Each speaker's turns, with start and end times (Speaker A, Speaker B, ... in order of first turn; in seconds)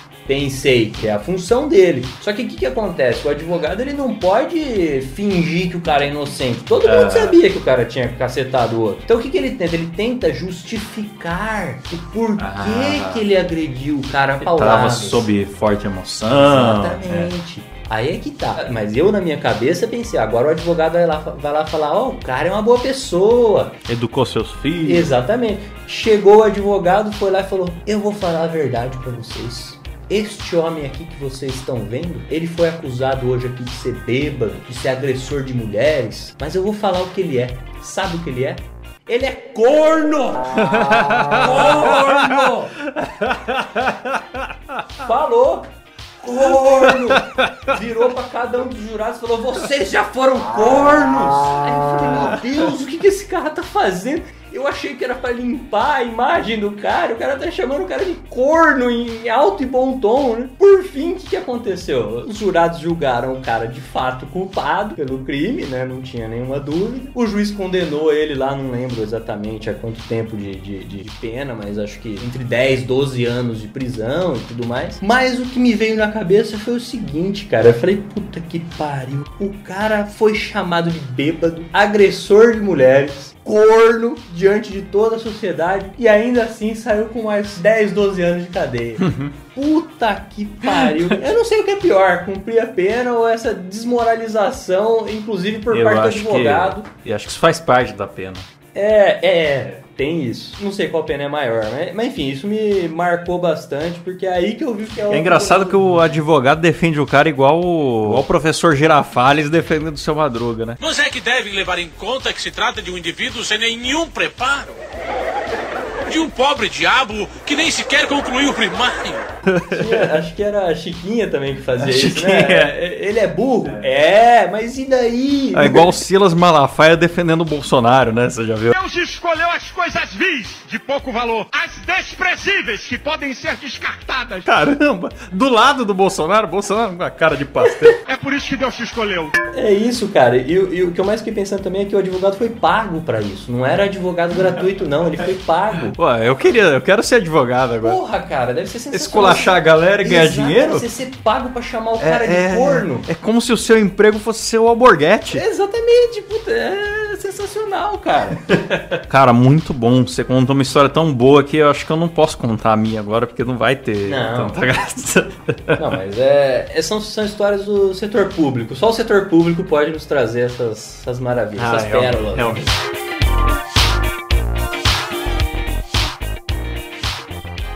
Speaker A: 0.2-15.3, 16.3-23.8, 24.8-42.7, 45.0-45.7, 46.2-96.8, 98.7-106.1, 119.7-125.9, 139.5-145.9, 147.8-153.1, 155.3-158.6, 164.0-164.6, 165.8-172.6
Speaker B: 6.8-7.3, 12.4-13.2, 14.4-17.3, 23.9-25.1, 40.5-44.8, 46.5-47.7, 89.0-89.3, 90.7-91.0, 95.7-98.5, 105.1-110.8, 119.5-120.1, 121.8-122.7, 125.5-128.7, 134.4-138.0, 145.9-148.0, 148.9-150.8, 152.0-155.4, 159.1-165.8, 171.6-172.7
Speaker C: 110.8-114.8, 116.1-119.3
Speaker D: 128.7-134.4, 138.1-139.3